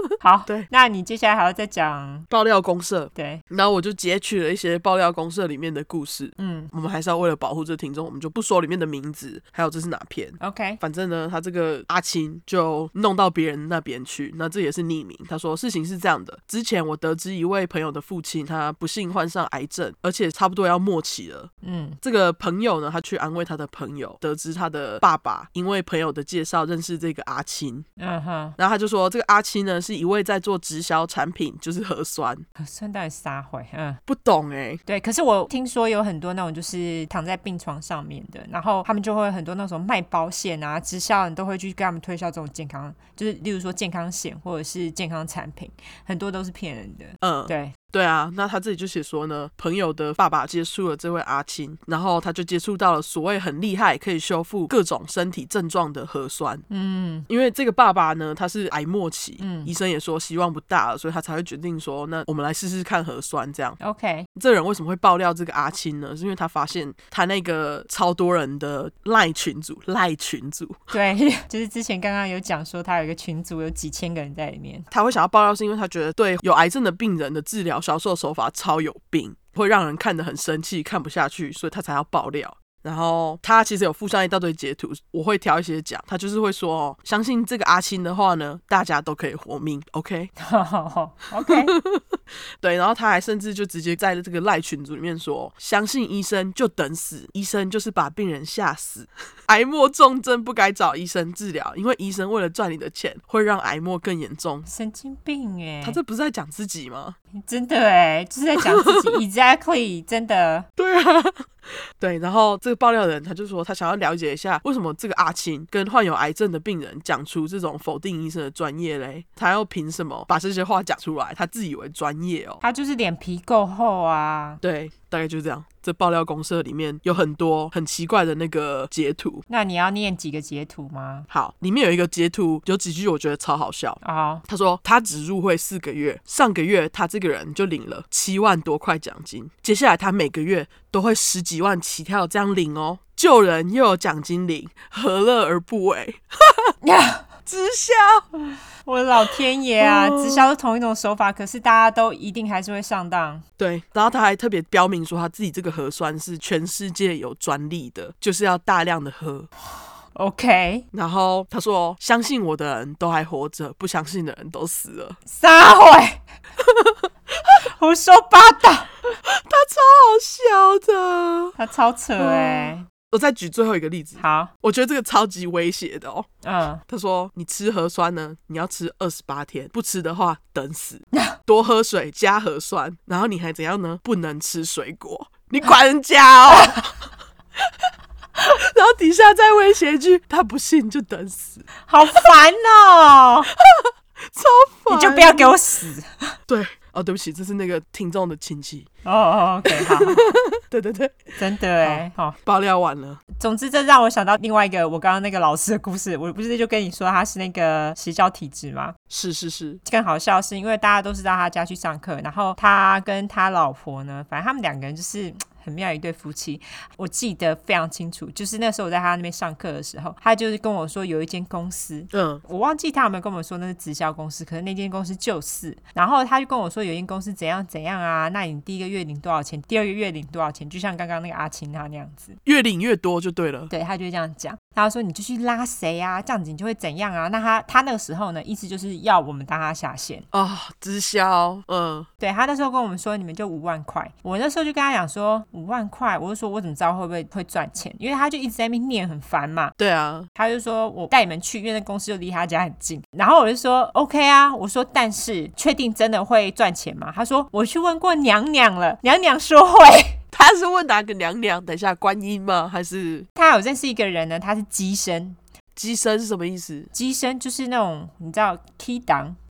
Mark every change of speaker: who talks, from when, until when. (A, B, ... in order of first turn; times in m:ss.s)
0:00.2-0:02.3 A
0:02.3-0:21.5 B
0:03.2-0:03.4 A
0:06.4-0:06.7 A
0:10.4-0:10.8 A
0:21.6-0:22.0 A
0:22.0-0:27.9 B
0:28.0-0:28.6 A
0:28.6-0:32.4 B
0:32.6-0:34.0 A
0:34.1-0:34.8 B
0:34.9-0:47.8 A
0:47.2-0:56.6 B
0:56.7-0:57.3 A
0:57.3-1:03.8 B
0:59.4-0:59.7 A
1:03.8-1:04.3 A
1:04.4-1:10.9 B
1:10.9-1:14.9 A
1:14.9-1:30.3 B
1:30.4-1:31.7 A
1:31.5-1:44.6 B
1:44.7-1:46.0 A
1:45.8-1:47.2 B
1:47.4-1:50.7 A
1:48.7-1:49.2 B
1:50.8-2:02.6 B
2:02.6-2:04.6 A
2:04.6-2:09.4 B
2:09.5-2:11.3 A
2:11.3-2:26.7 B
2:14.0-2:14.4 A
2:26.8-2:27.3 A
2:27.5-2:28.4 B
2:28.9-2:33.4 A
2:29.8-2:30.5 B
2:33.6-2:39.5 B
2:39.8-2:40.9 A
2:40.9-2:45.2 B
2:45.3-2:46.2 A
2:46.6-2:47.0 B
2:47.8-2:49.0 A
2:49.4-2:51.6 B
2:51.6-2:52.8 A
2:52.2-2:56.3 B
2:54.2-2:54.5 A
2:56.4-2:56.8 A
2:56.9-3:06.8 B
3:01.1-3:01.4 A
3:06.5-3:06.8 A
3:08.6-3:11.7 B
3:11.9-3:13.5 A
3:13.6-3:15.6 B
3:14.9-3:16.4 A
3:16.5-3:18.9 B
3:19.0-3:20.3 A
3:19.7-3:23.2 B
3:21.4-3:22.4 A
3:23.4-3:29.0 A
3:29.1-3:29.8 B
3:29.8-3:52.4 A
3:42.1-3:42.4 B
3:52.4-3:53.7 B
3:53.7-4:00.3 A
4:00.3-4:02.1 B
4:02.2-4:09.8 A
4:09.8-4:10.3 B
4:10.4-4:20.2 A
4:20.3-4:23.3 B
4:23.4-4:25.4 A
4:25.8-4:26.9 B
4:26.9-4:29.4 A